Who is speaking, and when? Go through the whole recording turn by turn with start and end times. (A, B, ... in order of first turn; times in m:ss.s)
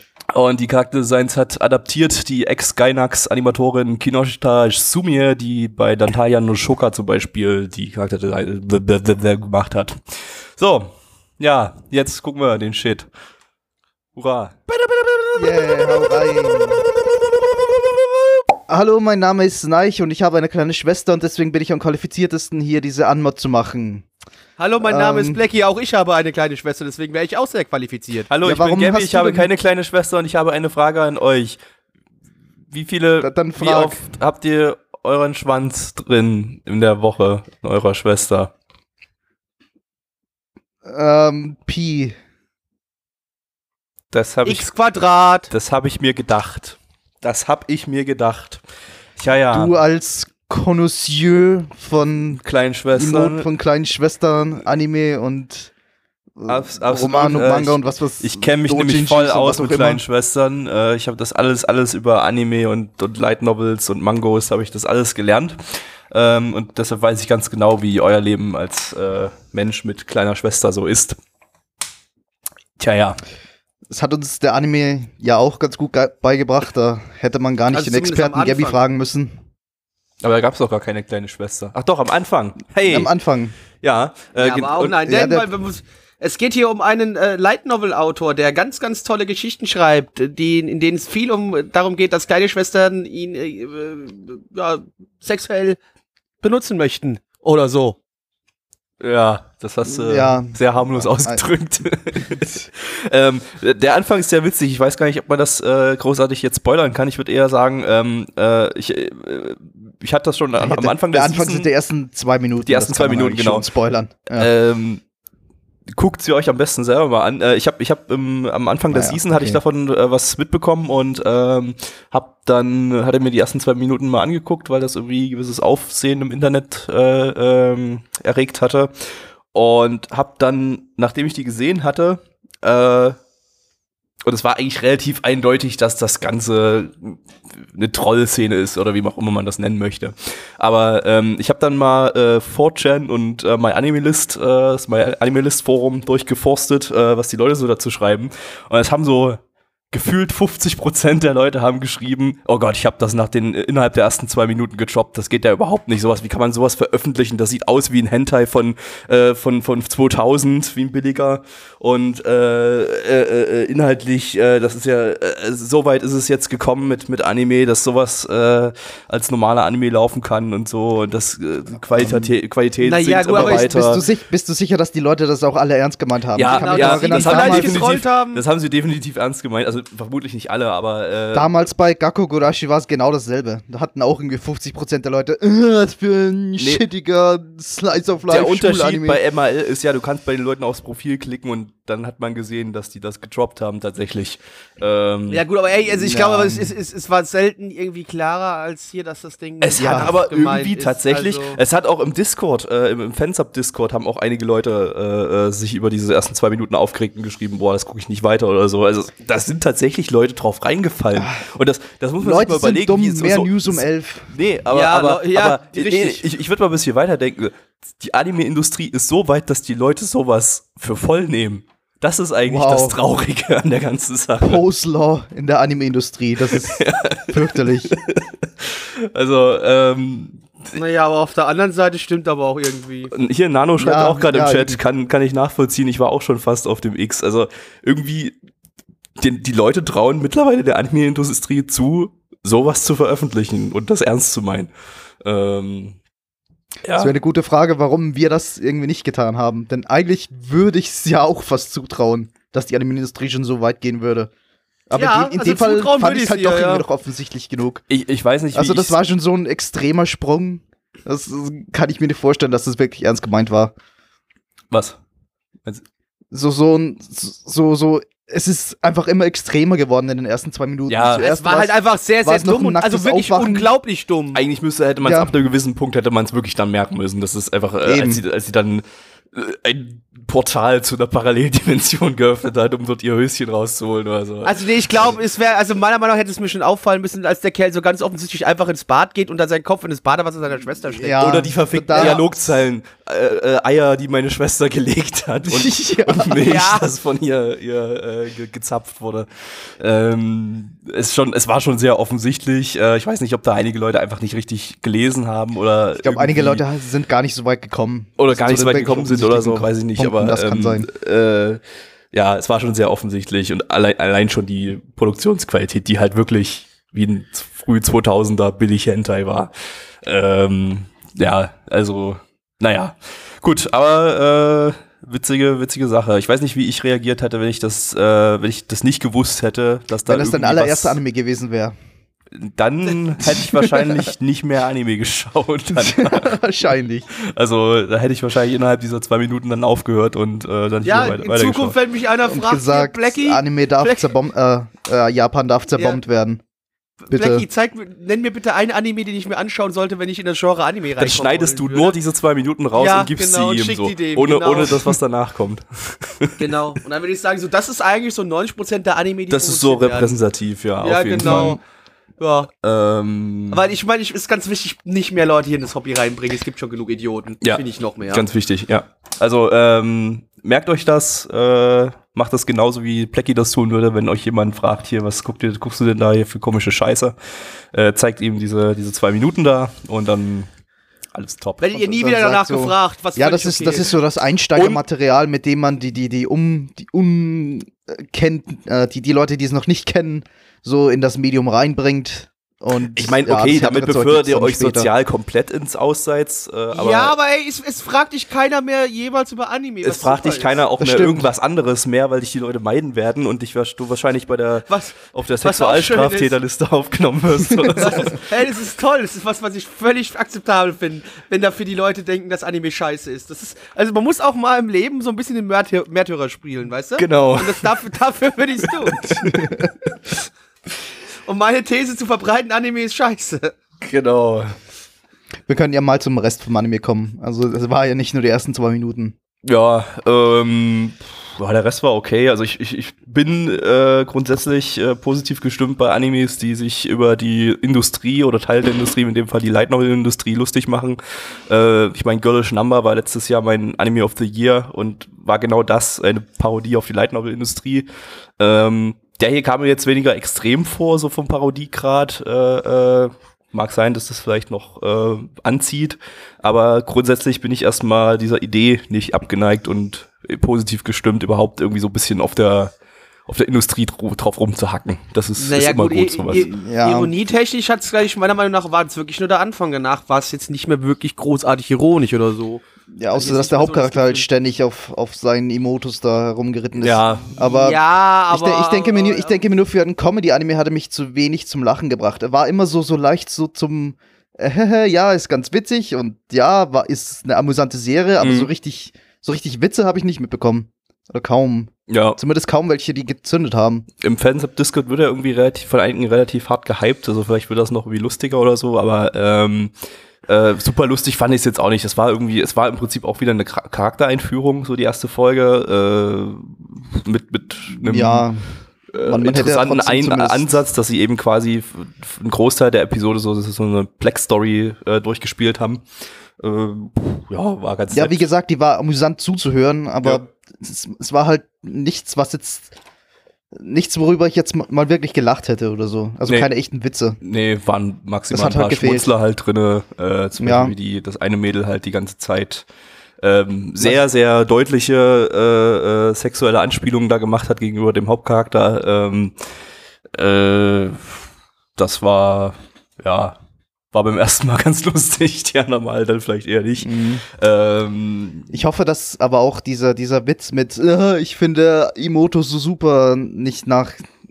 0:00.3-0:13.1 A
0:14.2-0:16.9 A
0:15.4-0:16.8 B
0:18.7-0:24.0 B
0:24.6-0:28.3 C
0:24.8-0:25.4 B
0:28.3-0:31.6 A
0:28.4-0:29.5 B
0:32.7-0:38.5 A
0:33.2-0:34.0 B
0:40.8-0:42.2 B
0:44.1-0:44.7 A
0:44.4-0:45.5 C
0:45.5-0:48.6 A
0:49.2-0:49.7 A
0:49.5-0:55.7 B
0:52.4-0:53.5 A
0:56.4-1:00.0 B
0:56.4-1:11.2 A
1:12.8-1:13.2 A
1:13.9-1:19.4 B
1:17.7-1:18.8 C
1:20.2-1:23.1 A
1:22.8-1:23.5 B
1:23.8-1:25.0 A
1:24.4-1:35.8 C
1:25.0-1:25.5 B
1:36.4-1:38.0 C
1:39.0-1:51.7 A
1:39.8-1:41.5 B
1:50.6-1:54.5 B
1:52.6-1:53.6 A
1:54.4-1:55.0 A
1:55.9-2:13.2 A
1:58.9-1:59.6 B
2:14.2-2:54.0 A
2:51.9-2:52.3 B
2:52.8-2:54.0 C
2:53.3-2:57.9 B
2:56.4-3:01.5 A
2:56.5-2:58.4 C
3:01.3-3:09.2 B
3:06.6-3:06.8 A
3:08.3-3:15.4 A
3:15.3-3:21.6 C
3:15.9-3:16.7 B
3:19.6-3:44.6 A
3:19.8-3:20.1 B
3:31.2-3:31.4 B
3:32.2-3:34.3 B
3:34.7-3:36.2 C
3:42.4-3:43.0 B
3:44.4-3:47.9 B
3:46.5-3:50.7 A
3:50.7-3:53.1 C
3:53.1-3:58.4 A
3:53.8-3:54.8 B
3:59.2-4:04.7 A
4:05.2-4:06.0 A
4:06.8-4:07.1 A
4:06.9-4:14.3 B
4:14.9-4:17.8 B
4:14.9-4:16.8 C
4:17.9-4:19.0 A
4:18.5-4:23.7 B
4:24.7-4:25.0 A
4:26.3-4:33.7 B
4:30.9-4:31.3 A
4:31.2-4:34.4 C
4:34.3-4:45.1 A
4:35.0-4:35.3 B
4:37.8-4:38.2 B
4:44.4-4:52.2 C
4:51.0-4:52.2 B
4:51.2-5:06.6 A
4:55.5-4:56.4 B
4:56.3-4:56.8 C
5:06.0-5:10.9 B
5:08.2-5:11.6 A
5:12.1-5:19.5 A
5:20.0-5:31.0 A
5:30.0-5:31.7 B
5:32.3-5:36.4 A
5:33.2-5:33.9 B
5:35.7-5:37.1 B
5:37.1-5:41.7 A
5:40.8-5:44.1 C
5:42.2-5:46.4 B
5:47.0-5:52.0 C
5:47.1-5:47.4 B
5:51.0-5:56.4 A
5:52.7-5:54.9 C
5:56.4-6:00.1 C
5:59.3-6:01.6 A
6:00.8-6:01.6 C
6:01.2-6:01.6 B
6:02.2-6:02.5 C
6:02.6-6:03.6 A
6:03.5-6:08.2 C
6:07.4-6:17.2 A
6:17.7-6:20.5 A
6:21.1-6:21.8 A
6:21.6-6:23.9 C
6:21.9-6:34.9 B
6:24.5-6:24.8 A
6:32.9-6:37.1 A
6:36.7-6:40.6 C
6:39.8-6:48.2 A
6:40.8-6:41.3 B
6:44.7-6:46.4 C
6:47.8-6:59.1 C
6:57.0-6:57.7 A
6:58.9-6:59.5 A
6:59.4-6:59.6 B
7:01.2-7:03.5 C
7:03.8-7:04.5 A
7:05.5-7:09.1 B
7:09.4-7:42.7 A
7:43.3-7:46.5 A
7:45.4-7:52.6 C
7:46.6-7:47.1 B
7:52.9-7:57.8 B
7:53.1-7:54.2 C
7:56.8-7:57.4 A
7:57.4-7:59.4 C
7:58.3-8:13.9 B
8:08.2-8:08.5 A
8:11.9-8:12.2 A
8:14.0-8:19.7 A
8:20.3-8:28.3 A
8:27.8-8:28.4 B
8:28.9-8:35.8 A
8:29.0-8:30.4 B
8:36.4-8:38.3 A
8:37.9-8:42.7 B
8:43.5-8:47.2 B
8:46.2-8:46.5 A
8:47.2-8:52.7 A
8:48.3-8:49.1 B
8:50.4-8:50.7 B
8:53.2-8:59.3 A
9:00.2-9:01.2 A
9:01.8-9:03.4 A
9:03.9-9:08.5 A
9:06.8-9:07.2 B
9:08.5-9:14.1 B